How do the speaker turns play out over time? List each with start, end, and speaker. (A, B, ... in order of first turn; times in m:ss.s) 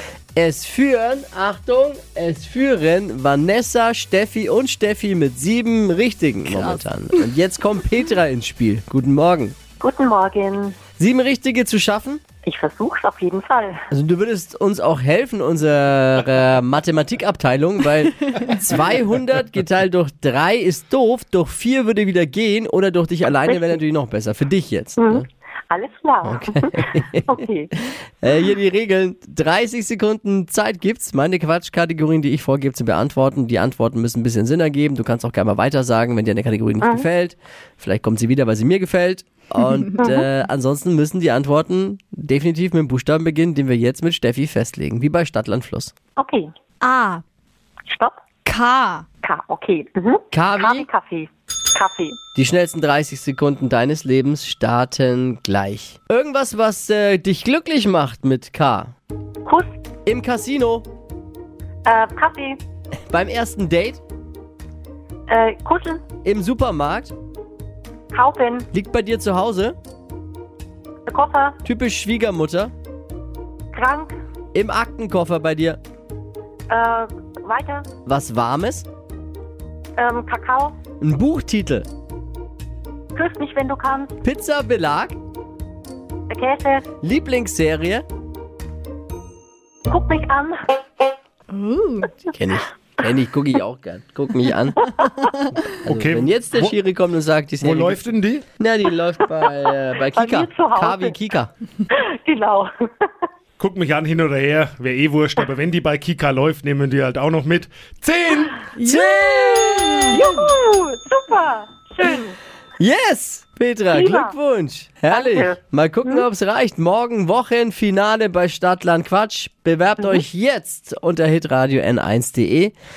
0:00.4-0:09.6 A
0:06.4-0:06.8 B
0:09.8-0:10.8 C
0:11.0-0:12.2 A
0:12.4-0:13.8 C
0:13.9-0:25.2 A
0:23.5-0:23.7 C
0:25.0-0:27.7 C
0:26.2-0:27.3 A
0:28.2-0:45.9 A
0:40.0-0:40.2 C
0:46.2-0:46.5 C
0:46.8-0:47.2 B
0:47.9-0:48.2 C
0:48.4-0:49.0 B
0:49.2-0:52.2 C
0:50.3-0:50.9 A
0:52.4-0:58.9 A
0:59.4-0:59.8 C
1:00.0-1:00.8 A
1:01.8-1:02.6 C
1:03.1-1:04.0 A
1:05.3-1:06.0 C
1:06.2-1:07.1 A
1:08.1-1:08.7 C
1:08.7-1:09.8 A
1:11.1-1:11.6 C
1:11.6-1:12.7 A
1:13.7-1:14.1 C
1:14.5-1:15.8 A
1:16.7-1:17.9 C
1:18.0-1:18.8 A
1:20.0-1:20.8 C
1:21.0-1:21.9 A
1:23.1-1:24.2 C
1:24.2-1:25.1 A
1:26.3-1:26.8 C
1:27.0-1:28.0 A
1:29.9-1:30.6 C
1:31.5-1:32.1 B
1:32.3-1:38.0 A
1:34.9-1:35.3 C
1:35.8-1:36.7 D
1:37.6-1:38.4 D
1:38.6-1:41.5 A
1:40.1-1:41.1 C
1:41.9-1:43.1 C
1:43.6-1:48.7 D
1:48.8-1:50.2 B
1:48.8-1:50.2 A
1:50.0-1:52.4 C
1:52.8-2:02.7 A
1:53.9-1:54.3 C
1:55.1-1:56.2 C